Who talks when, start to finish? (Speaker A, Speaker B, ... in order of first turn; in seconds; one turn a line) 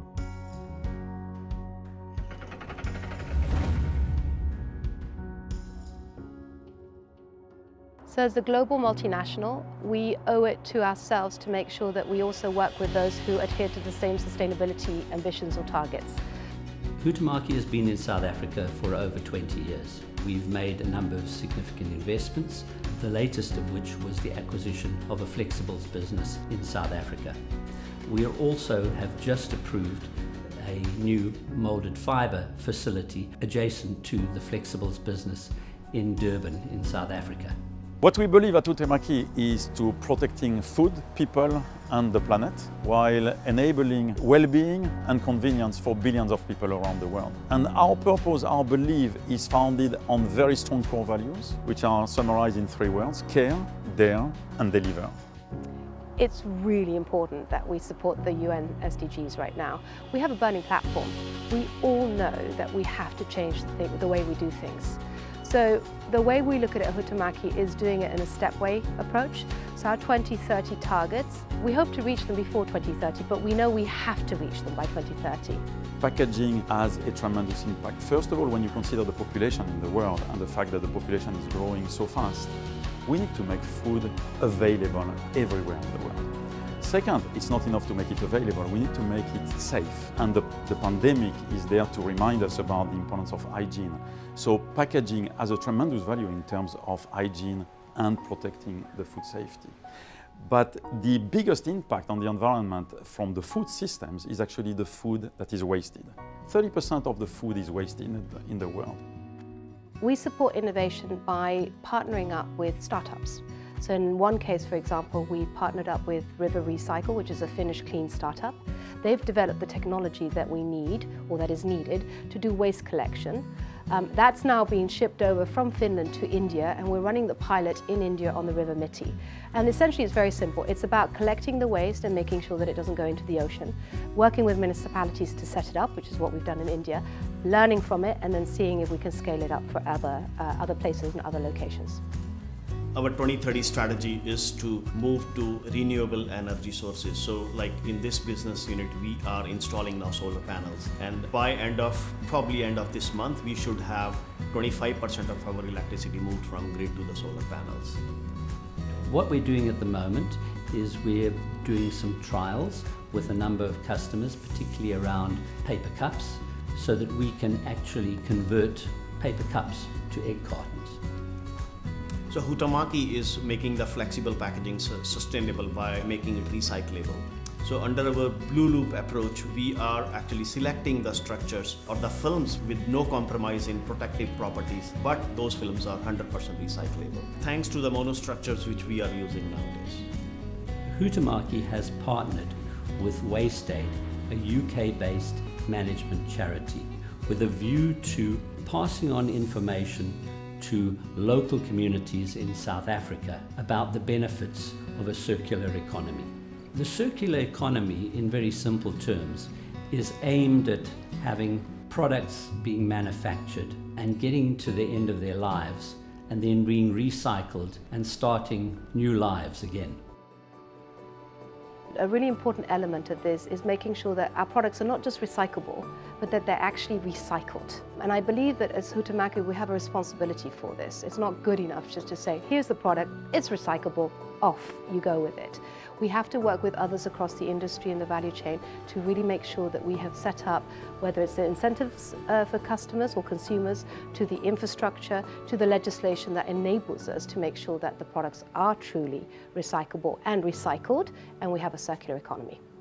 Speaker A: 8.1-16.2
Speaker B: 17.0-27.4
Speaker B: 28.1-37.6
Speaker C: 38.0-55.1
Speaker A: 56.2-75.6
Speaker C: 76.0-99.8
Speaker C: 100.4-109.0
Speaker A: 110.0-142.0
Speaker D: 142.9-158.0
Speaker B: 159.0-171.0
Speaker D: 172.3-190.1
Speaker B: 190.9-220.0
Speaker A: 222.0-252.6